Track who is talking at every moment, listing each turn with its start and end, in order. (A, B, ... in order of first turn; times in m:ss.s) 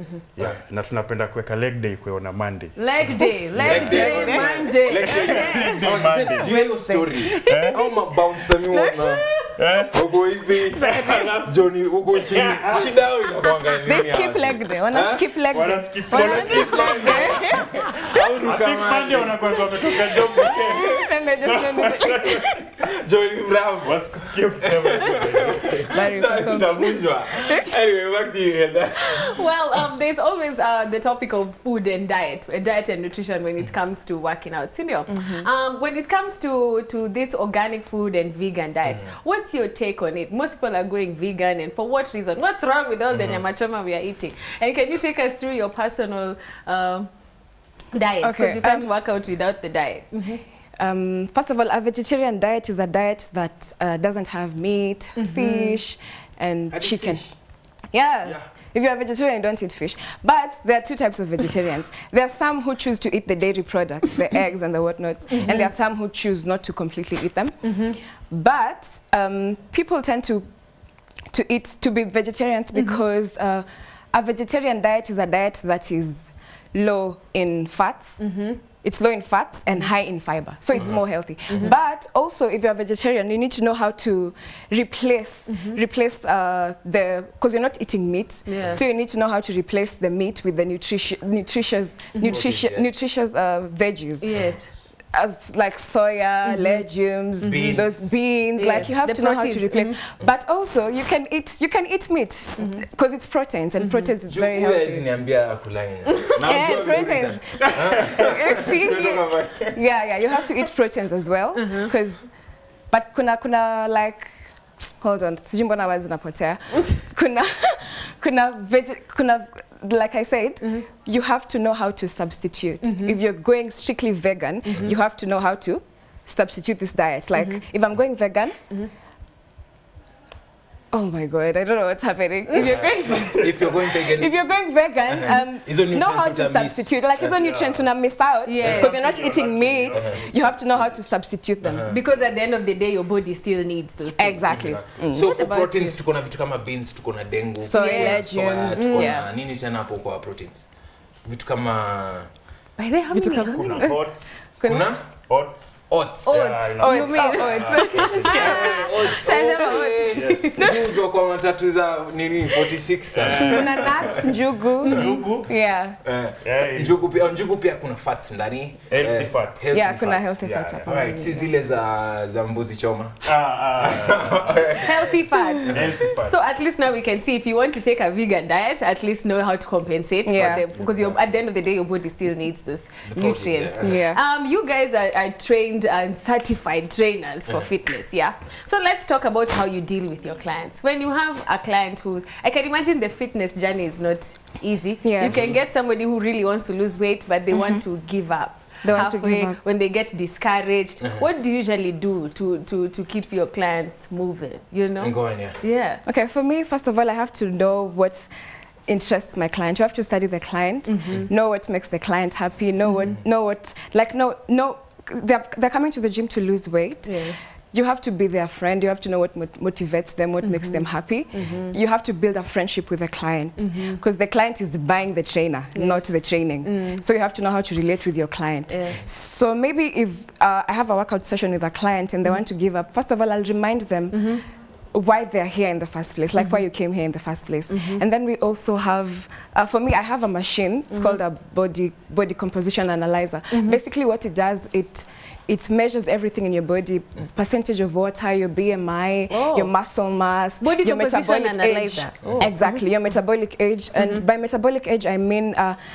0:00.3-0:04.3 A
0:02.8-0:06.0 B
0:03.6-0:09.3 C
0:03.9-0:05.3 D
0:05.1-0:06.6 A
0:06.1-0:07.9 D
0:07.5-0:07.8 A
0:08.7-0:09.5 D
0:09.6-0:10.0 A
0:09.9-0:15.3 C
0:10.8-0:11.1 D
0:10.8-0:11.5 A
0:12.1-0:13.0 A
0:13.8-0:17.7 D
0:15.5-0:17.4 A
0:16.2-0:19.4 C
0:18.0-0:22.4 A
0:19.9-0:21.0 C
0:20.3-0:22.6 D
0:22.8-0:29.8 C
0:23.8-0:25.9 A
0:25.9-0:27.7 D
0:29.0-0:47.1 B
0:35.1-0:35.5 D
0:38.8-0:39.1 C
0:43.1-0:43.4 C
0:47.9-0:50.4 B
0:48.2-0:48.9 D
0:50.8-0:57.2 D
0:55.2-0:55.8 B
0:56.7-0:57.2 C
0:57.9-0:58.3 B
0:58.2-1:07.5 D
1:05.4-1:05.7 B
1:07.6-1:08.0 B
1:08.3-1:10.5 D
1:11.3-1:18.2 D
1:18.2-1:18.6 B
1:18.8-1:34.3 D
1:20.7-1:21.7 C
1:21.5-1:21.8 B
1:25.5-1:25.8 B
1:28.4-1:28.8 B
1:32.1-1:32.4 B
1:32.3-1:32.8 C
1:34.2-1:34.6 B
1:35.1-1:45.0 D
1:36.4-1:36.8 B
1:37.4-1:37.9 B
1:37.4-1:38.1 C
1:38.6-1:40.0 B
1:42.6-1:42.8 B
1:43.8-1:44.1 B
1:44.3-1:49.8 C
1:46.2-1:46.8 B
1:46.4-1:52.3 D
1:51.6-1:51.9 B
1:52.9-2:08.6 D
2:00.6-2:00.9 B
2:02.8-2:03.2 B
2:04.7-2:04.9 C
2:07.4-2:07.6 B
2:10.9-2:22.0 D
2:12.5-2:12.8 B
2:12.6-2:14.4 C
2:13.2-2:13.6 A
2:15.1-2:17.4 C
2:17.4-2:17.8 A
2:18.4-2:19.1 B
2:18.6-2:21.1 A
2:19.9-2:20.2 C
2:21.6-2:22.0 C
2:21.9-2:24.5 B
2:24.2-2:25.3 D
2:24.5-2:25.1 A
2:24.5-2:30.6 C
2:25.2-2:26.0 B
2:27.6-2:29.3 D
2:27.7-2:29.2 B
2:31.2-2:32.3 C
2:32.8-2:33.9 B
2:33.1-2:34.9 D
2:33.4-2:34.4 A
2:34.6-2:35.0 C
2:35.3-2:35.8 A
2:35.9-2:36.5 C
2:36.2-2:40.8 B
2:36.3-2:38.5 A
2:36.8-2:39.9 D
2:37.8-2:45.0 C
2:40.1-2:40.5 A
2:43.1-2:43.9 A
2:43.4-2:46.0 D
2:44.8-2:45.5 A
2:46.0-2:56.0 C
2:46.4-2:47.1 A
2:48.9-2:50.9 A
2:49.7-2:51.5 D
2:53.2-2:54.7 A
2:54.8-3:26.0 B
2:55.7-2:56.4 A
3:00.2-3:00.6 D
3:00.8-3:01.2 A
3:03.1-3:04.0 C
3:03.8-3:04.2 D
3:15.0-3:15.5 D
3:15.2-3:15.6 C
3:17.5-3:17.8 D
3:18.8-3:19.6 D
3:25.0-3:25.6 C
3:26.0-3:28.3 D
3:28.9-3:54.4 D
3:30.8-3:31.3 B
3:32.8-3:33.2 B
3:37.0-3:37.4 B
3:40.4-3:41.8 B
3:43.6-3:44.0 B
3:45.7-3:46.1 B
3:46.6-3:47.0 B
3:48.7-3:49.0 B
3:54.1-3:54.4 B
3:54.9-4:15.8 D
3:56.4-3:56.6 B
3:57.7-3:58.0 B
4:00.9-4:01.2 B
4:03.5-4:03.8 B
4:09.3-4:09.7 B
4:10.6-4:12.8 B
4:12.2-4:12.5 C
4:14.0-4:14.2 B